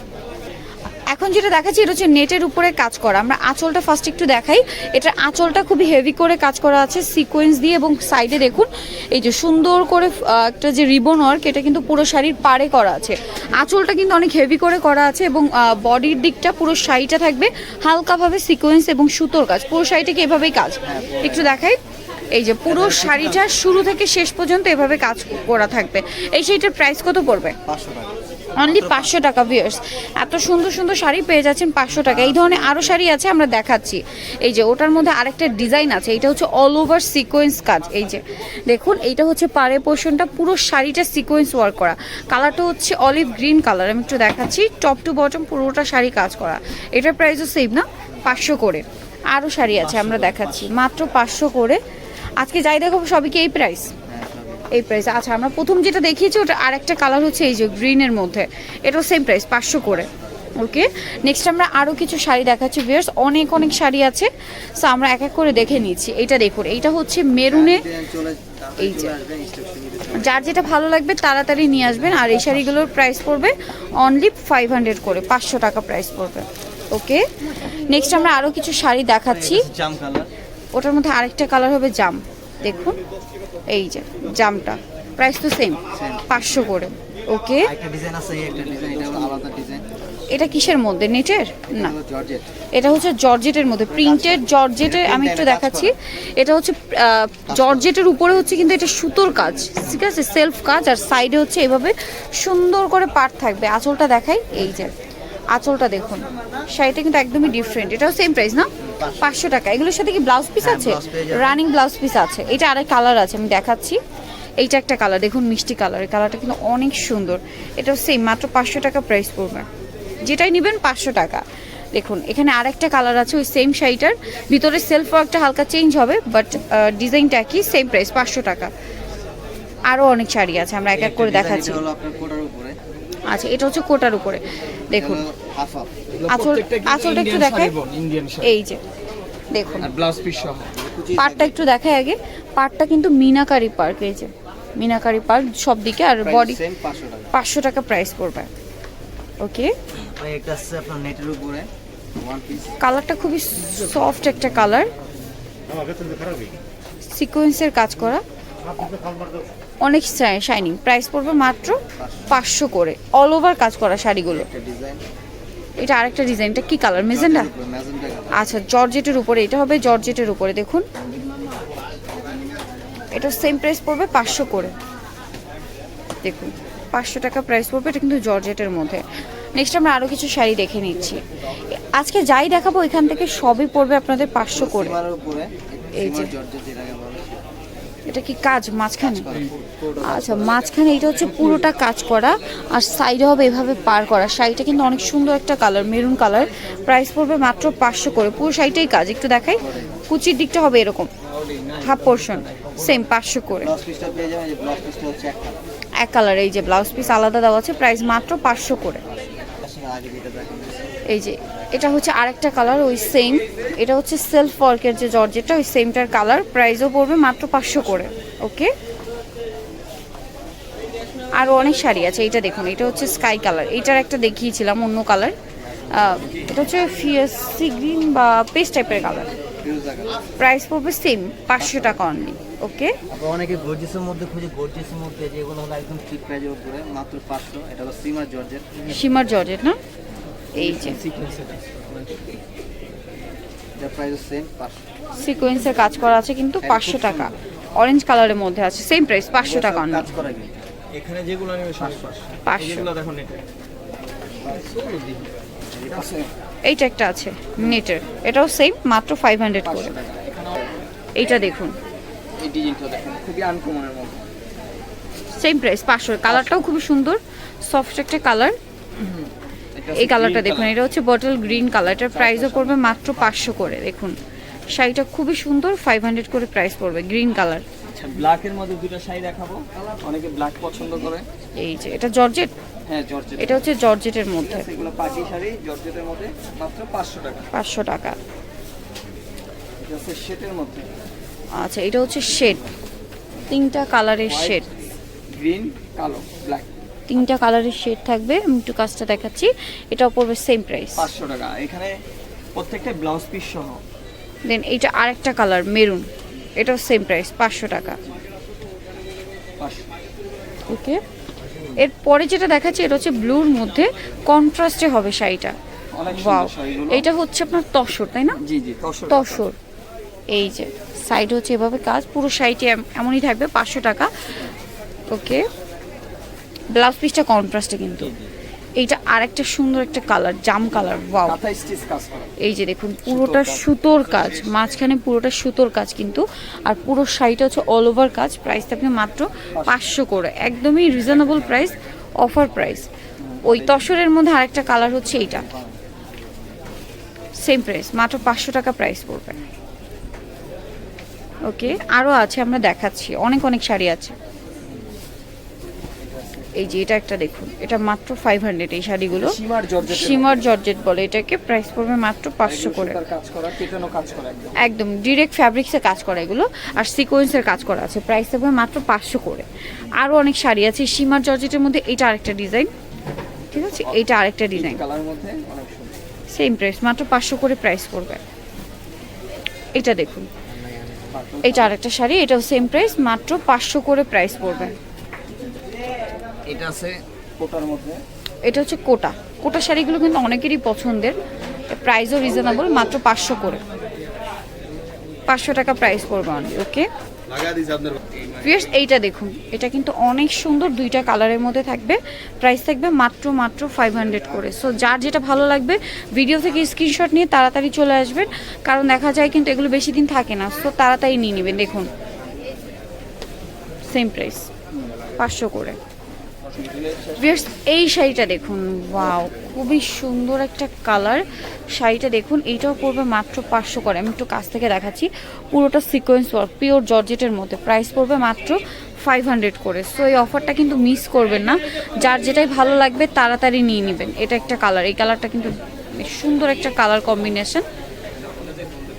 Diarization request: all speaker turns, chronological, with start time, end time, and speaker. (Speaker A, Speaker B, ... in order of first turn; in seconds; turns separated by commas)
Speaker A: 1.1-21.8, Speaker B: 20.9-21.6, Speaker A: 22.3-27.6, Speaker B: 22.7-23.5, Speaker B: 27.6-29.2, Speaker A: 28.6-51.8, Speaker B: 31.9-33.0, Speaker B: 49.7-50.8, Speaker A: 52.4-53.9, Speaker B: 54.1-54.7, Speaker A: 54.7-67.9, Speaker B: 67.5-70.6, Speaker A: 68.8-69.1, Speaker A: 70.1-79.7, Speaker B: 79.3-80.3, Speaker A: 80.7-83.0, Speaker A: 83.7-87.7, Speaker B: 85.9-86.7, Speaker B: 87.6-89.8, Speaker A: 90.3-92.0, Speaker B: 91.7-92.5, Speaker A: 92.7-104.9, Speaker B: 93.9-95.9, Speaker B: 97.5-98.0, Speaker A: 105.5-108.7, Speaker B: 108.8-109.4, Speaker A: 109.2-114.0, Speaker B: 110.6-111.6, Speaker A: 114.6-119.7, Speaker A: 120.2-128.7, Speaker A: 129.9-131.9, Speaker B: 131.0-132.8, Speaker A: 133.3-135.2, Speaker B: 134.9-135.9, Speaker C: 136.2-138.6, Speaker A: 136.3-137.7, Speaker A: 138.4-138.8, Speaker A: 139.5-139.9, Speaker C: 139.8-140.8, Speaker B: 140.7-141.6, Speaker A: 141.2-146.6, Speaker B: 146.2-147.3, Speaker A: 147.3-148.5, Speaker A: 149.4-149.8, Speaker B: 149.9-152.8, Speaker A: 152.8-154.9, Speaker A: 157.1-158.2, Speaker A: 159.8-164.5, Speaker B: 162.0-162.4, Speaker B: 164.3-165.0, Speaker A: 165.8-167.5, Speaker B: 167.0-168.5, Speaker A: 168.3-170.8, Speaker A: 173.1-174.8, Speaker A: 176.2-185.0, Speaker B: 184.6-187.4, Speaker A: 185.9-186.3, Speaker A: 188.1-189.4, Speaker B: 189.0-190.6, Speaker C: 189.4-189.8, Speaker A: 190.0-201.1, Speaker C: 201.4-202.8, Speaker A: 201.8-203.7, Speaker B: 203.6-205.6, Speaker A: 206.0-209.0, Speaker B: 209.6-210.9, Speaker A: 211.1-218.7, Speaker A: 221.3-225.3, Speaker A: 225.9-229.3, Speaker B: 229.6-230.2, Speaker A: 230.4-233.0, Speaker B: 231.6-232.0, Speaker B: 233.1-238.7, Speaker A: 238.9-239.8, Speaker A: 240.6-241.0, Speaker C: 240.6-242.4, Speaker B: 243.8-244.8, Speaker A: 245.2-250.1, Speaker B: 246.6-247.3, Speaker B: 249.4-250.6, Speaker C: 250.9-253.4, Speaker A: 252.4-252.9, Speaker C: 254.4-255.3, Speaker B: 255.7-256.1, Speaker C: 255.9-256.3, Speaker A: 256.7-259.9, Speaker C: 259.6-260.8, Speaker A: 261.2-261.8, Speaker C: 262.4-264.2, Speaker A: 265.4-268.6, Speaker C: 266.3-266.6, Speaker C: 269.0-270.8, Speaker A: 269.9-274.2, Speaker C: 271.9-273.2, Speaker A: 274.7-277.6, Speaker C: 277.9-281.2, Speaker A: 281.6-282.5, Speaker C: 282.9-283.7, Speaker A: 283.4-284.7, Speaker C: 284.4-287.5, Speaker A: 287.5-288.2, Speaker C: 289.8-290.9, Speaker A: 291.6-292.6, Speaker A: 293.5-294.6, Speaker C: 294.3-294.7, Speaker C: 295.3-296.7, Speaker A: 297.1-301.1, Speaker C: 301.0-302.0, Speaker C: 302.6-303.8, Speaker A: 304.5-306.1, Speaker A: 306.6-308.0, Speaker C: 309.6-309.9, Speaker A: 310.7-311.0, Speaker A: 311.8-315.6, Speaker C: 315.9-317.1, Speaker A: 316.1-318.4, Speaker C: 318.4-319.4, Speaker A: 319.1-319.6, Speaker A: 320.3-324.1, Speaker A: 325.1-325.5, Speaker A: 326.7-328.1, Speaker A: 328.8-331.4, Speaker C: 331.2-332.3, Speaker A: 332.4-342.9, Speaker C: 333.1-333.7, Speaker C: 339.6-339.8, Speaker C: 343.2-343.6, Speaker A: 343.4-345.5, Speaker A: 347.4-349.4, Speaker A: 351.5-354.1, Speaker A: 356.6-363.0, Speaker C: 359.1-360.5, Speaker C: 362.4-364.6, Speaker A: 364.6-369.5, Speaker A: 370.0-372.7, Speaker C: 373.5-374.0, Speaker A: 373.5-374.8, Speaker C: 374.5-375.9, Speaker A: 376.3-378.2, Speaker A: 379.8-380.3, Speaker C: 381.1-381.8, Speaker A: 381.4-384.8, Speaker C: 386.5-388.0, Speaker A: 388.4-391.2, Speaker A: 391.7-393.6, Speaker A: 395.3-396.9, Speaker C: 397.4-397.9, Speaker A: 398.4-411.9, Speaker A: 413.9-414.5, Speaker A: 415.2-415.8, Speaker C: 416.5-417.4, Speaker A: 417.2-437.7